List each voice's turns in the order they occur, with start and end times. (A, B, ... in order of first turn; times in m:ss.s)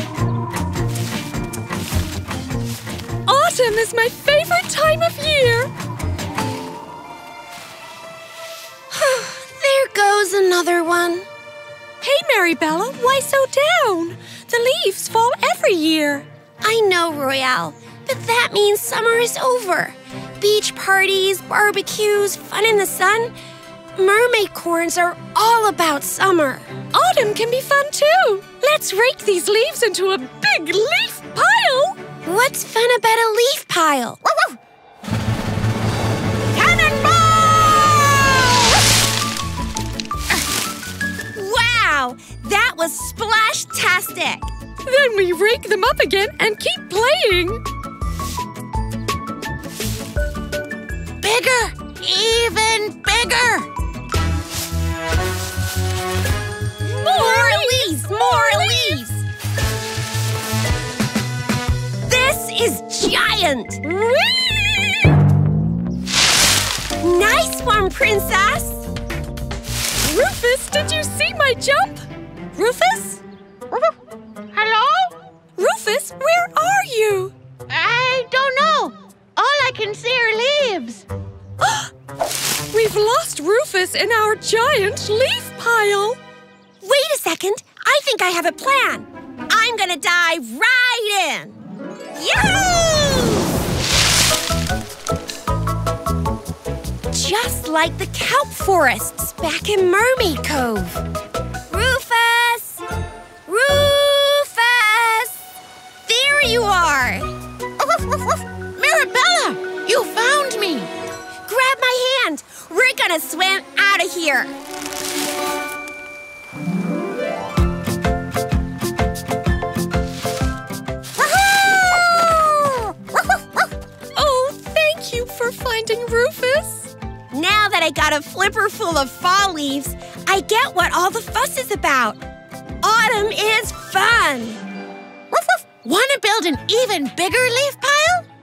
0:03.2-0:05.7 A
0:08.9-0:11.3 B
0:12.0-0:16.2 A
0:16.6-0:23.3 B
0:24.0-0:26.8 B
0:26.9-0:32.0 A
0:32.2-0:34.2 B
0:36.5-0:38.6 B
0:41.3-0:44.4 B
0:44.8-0:47.6 A
0:51.2-0:53.7 C
0:56.8-0:59.2 B
0:56.9-0:58.9 A
1:02.0-1:03.9 B
1:03.9-1:05.1 A
1:07.0-1:08.9 B
1:10.0-1:13.2 A
1:14.5-1:15.2 C
1:15.6-1:17.3 A
1:17.7-1:21.0 C
1:21.6-1:21.9 A
1:22.7-1:26.2 A
1:26.8-1:31.6 B
1:32.1-1:33.6 B
1:37.1-1:41.0 B
1:41.7-1:42.8 B
1:43.4-1:45.4 B
1:46.0-1:47.3 B
1:47.8-1:50.9 C
1:51.5-1:54.6 B
2:02.0-2:02.3 B
2:04.1-2:06.9 A
2:07.3-2:12.2 B
2:12.8-2:14.6 B
2:15.3-2:18.2 C